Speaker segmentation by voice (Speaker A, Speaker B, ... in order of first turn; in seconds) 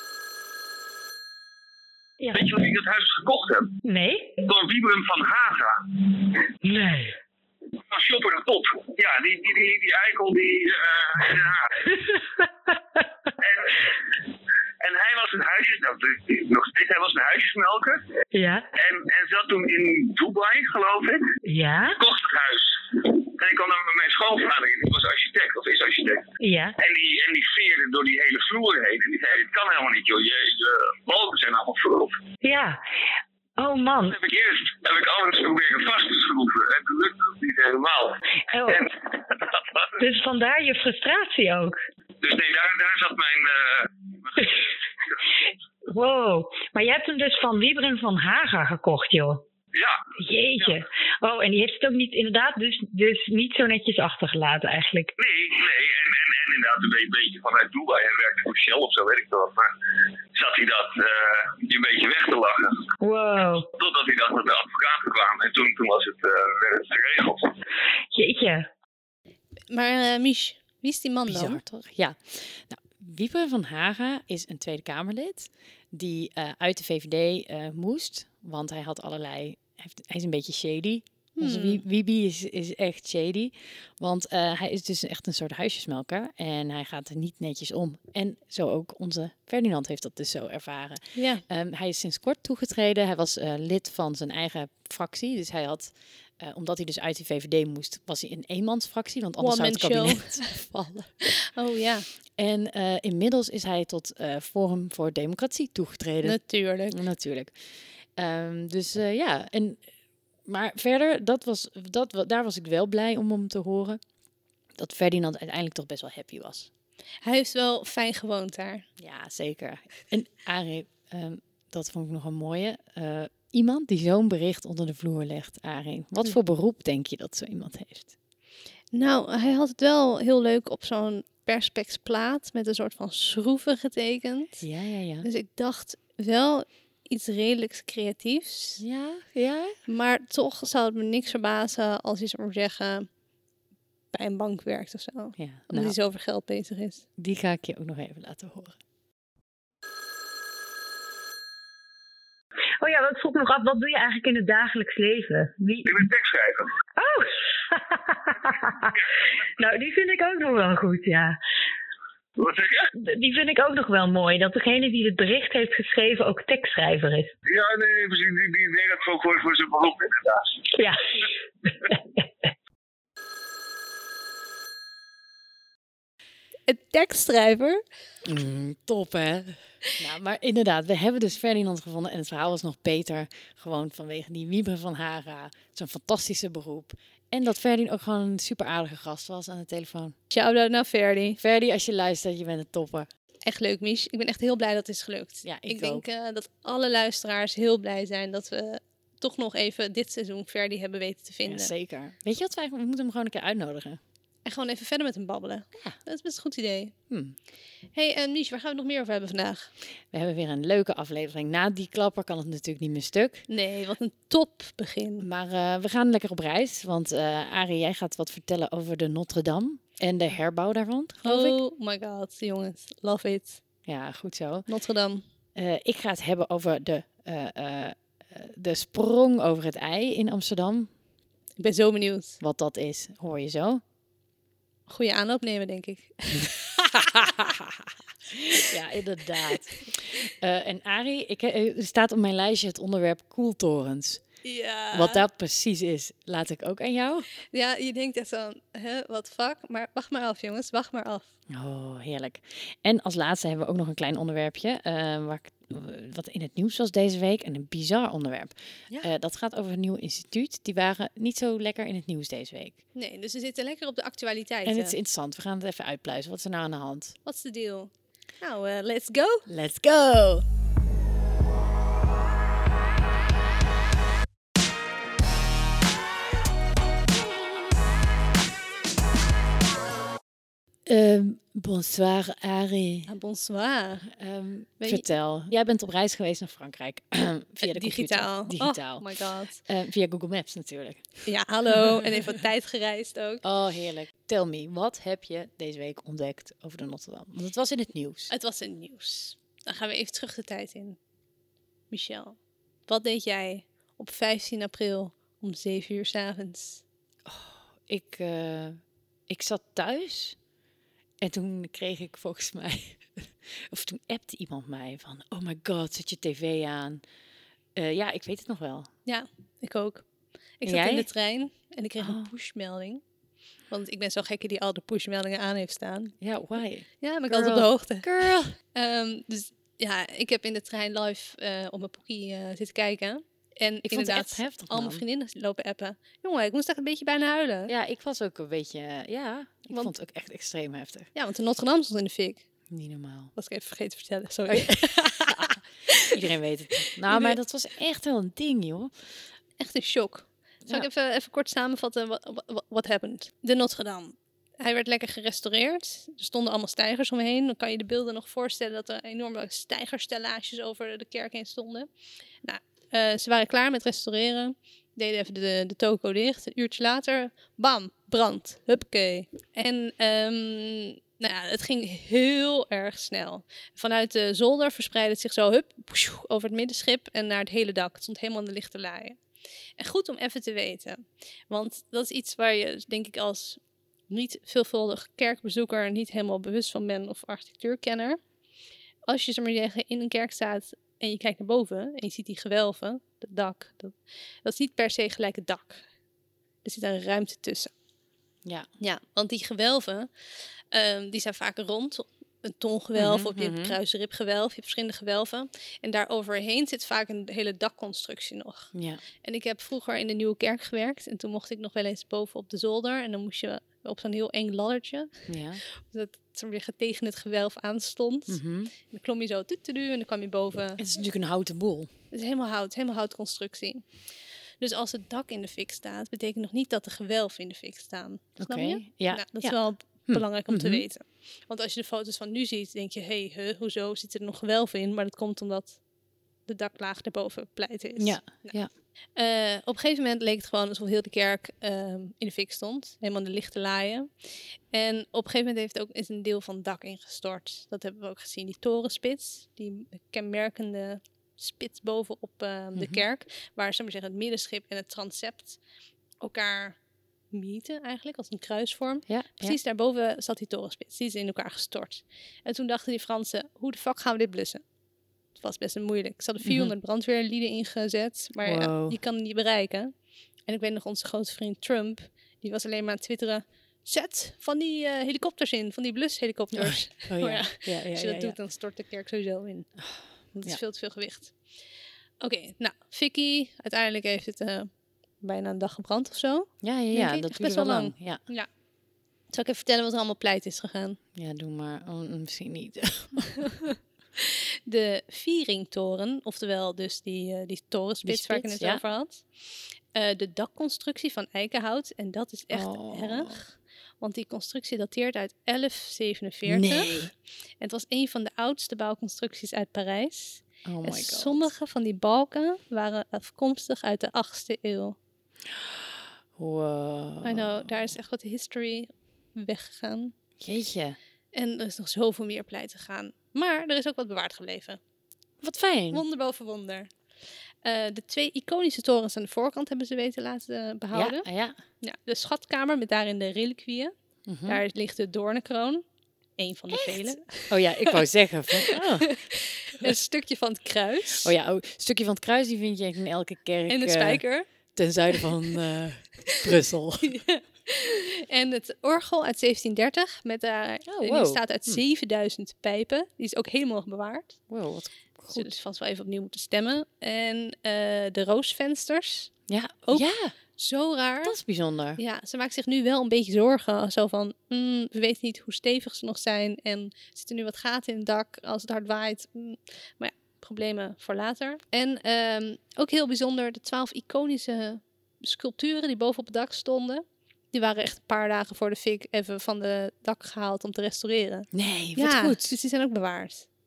Speaker A: 2.2-2.5, 3.9-4.4, 6.6-7.2, 18.3-18.7, 21.4-22.0, 26.4-26.8, 32.4-32.8, 33.6-34.2, 38.5-38.9, 40.0-41.8, 45.9-49.4, 50.2-55.1, 63.0-63.7, 68.1-68.7, 152.8-155.9, 157.0-158.9, 159.6-161.4, 163.0-167.3, 170.8-171.2
Speaker B: 2.3-3.7, 4.4-6.2, 7.9-11.9, 13.4-14.0, 14.8-18.1, 18.7-21.3, 22.0-32.2, 34.1-39.9, 42.2-44.6, 49.7-50.0, 55.2-59.7, 60.3-62.9, 63.8-67.5, 155.8-156.7, 162.4-162.9, 167.5-170.7
Speaker C: 69.7-71.6, 81.4-81.8, 91.2-91.4, 99.4-100.6, 101.2-102.1, 106.2-107.0, 117.2-118.9, 128.9-134.6, 135.2-138.8, 139.9-143.1, 144.1-147.0, 176.7-177.8, 190.3-191.4, 193.4-201.7, 204.5-206.9, 207.9-209.7, 213.5-215.2, 221.2-223.6, 224.7-225.3, 231.6-232.4, 234.9-237.3, 244.4-245.2, 247.5-251.3, 262.9-265.0, 267.3-269.5, 283.1-284.1, 284.8-285.1, 287.6-289.6, 291.3-293.4, 298.3-301.0, 301.9-306.8, 319.1-320.1, 320.6-323.0, 323.7-326.1, 327.0-337.7, 341.1-342.5, 343.4-346.2, 346.8-347.4, 349.6-361.9, 362.4-379.2, 379.8-388.2, 389.1-395.9, 396.6-397.7, 398.8-400.1, 400.7-420.8, 422.1-435.8, 436.5-438.6, 439.2-455.6, 456.2-456.8, 457.3-464.6, 465.4-469.9, 470.5-479.7, 480.3-481.4, 482.2-488.5, 489.3-491.0, 494.2-515.0, 517.2-520.1, 521.3-524.8, 525.9-526.9, 527.6-531.3, 531.8-533.9, 534.5-535.8, 536.4-541.3, 543.7-545.5, 547.0-554.4, 555.3-561.4, 562.0-583.5
Speaker D: 71.3-101.2, 102.4-109.8, 110.5-114.0, 114.8-116.7, 119.0-128.1, 134.6-135.3, 138.8-139.8, 145.4-146.0, 147.2-148.8, 178.2-190.2, 191.4-193.1, 195.4-196.1, 201.5-204.0, 207.1-207.4, 210.1-213.4, 215.2-221.6, 223.9-224.7, 225.6-230.9, 232.4-233.8, 237.1-237.9, 238.6-244.2, 244.9-247.3, 251.5-262.8, 264.6-267.2, 269.5-270.5, 280.9-283.1, 284.1-289.1, 289.6-291.8, 293.4-298.3, 307.3-310.4, 311.2-317.0, 317.8-318.9, 320.6-321.1, 322.0-322.3, 326.2-328.6, 333.8-335.0, 337.7-341.1, 342.7-343.3, 344.5-349.2, 403.0-403.8, 408.7-409.0, 415.3-415.6, 418.3-418.7, 420.8-421.9, 428.4-430.9, 438.0-438.7, 452.8-453.0, 459.1-459.6, 466.4-466.7, 468.4-469.0, 476.5-478.4, 479.8-480.6, 486.6-488.2, 491.1-493.5, 498.1-498.8, 502.5-503.4, 506.5-507.1, 510.6-511.5, 515.5-517.7, 520.4-521.0, 525.4-526.0, 530.9-531.6, 534.3-534.6, 536.7-539.3, 541.2-547.2, 550.9-551.8, 554.5-555.5, 559.5-560.4, 561.2-562.0, 581.5-582.5